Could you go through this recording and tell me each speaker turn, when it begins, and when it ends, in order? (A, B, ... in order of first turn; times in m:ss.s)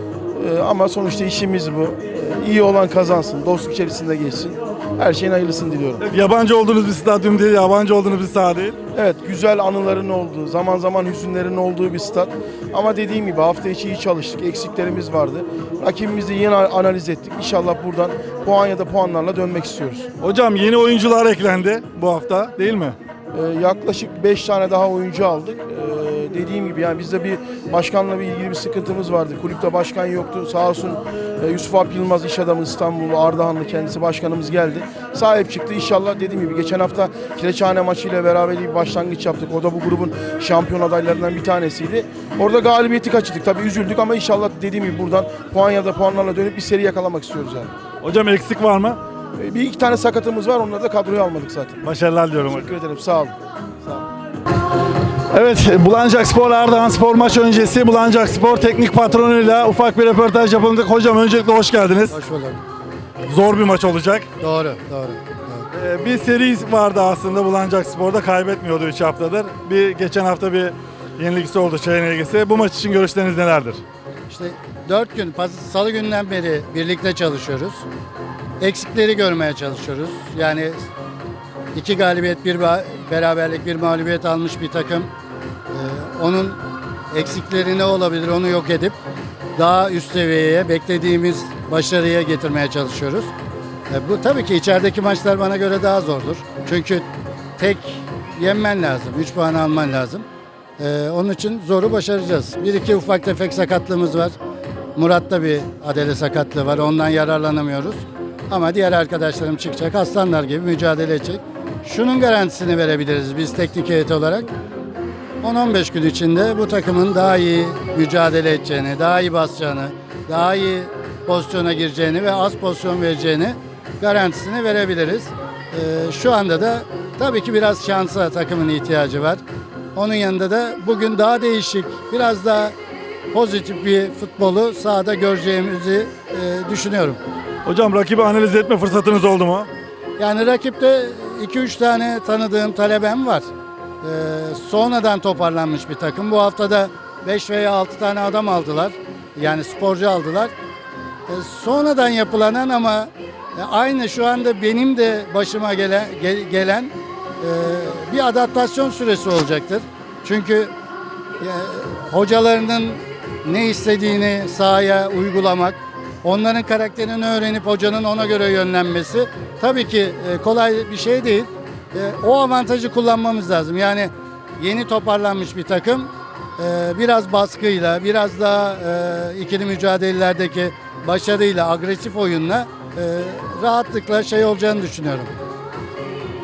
0:00.3-0:06.1 A
0:06.0-0:08.8 B
0:08.9-0:20.1 A
0:20.2-0:23.0 B
0:23.3-0:47.7 A
0:48.0-0:49.0 B
0:49.4-0:51.8 A
0:51.8-0:52.7 B
0:52.4-0:54.1 A
0:55.3-1:02.1 B
1:02.1-1:02.6 C
1:03.3-1:04.3 B
1:04.4-1:05.7 C
1:05.7-1:13.8 B
1:14.3-1:17.8 C
1:18.6-1:20.9 C
1:21.8-1:25.1 C
1:25.7-1:26.6 C
1:27.1-1:29.0 C
1:29.6-1:33.3 C
1:33.9-1:37.1 C
1:37.6-1:40.2 C
1:40.8-1:44.3 C
1:45.0-1:54.5 C
1:55.4-2:09.4 C
2:10.0-2:12.8 C
2:13.3-2:17.2 C
2:17.6-2:19.7 B
2:20.2-2:23.5 C
2:24.0-2:30.5 C
2:31.3-2:40.7 C
2:41.4-3:05.3 C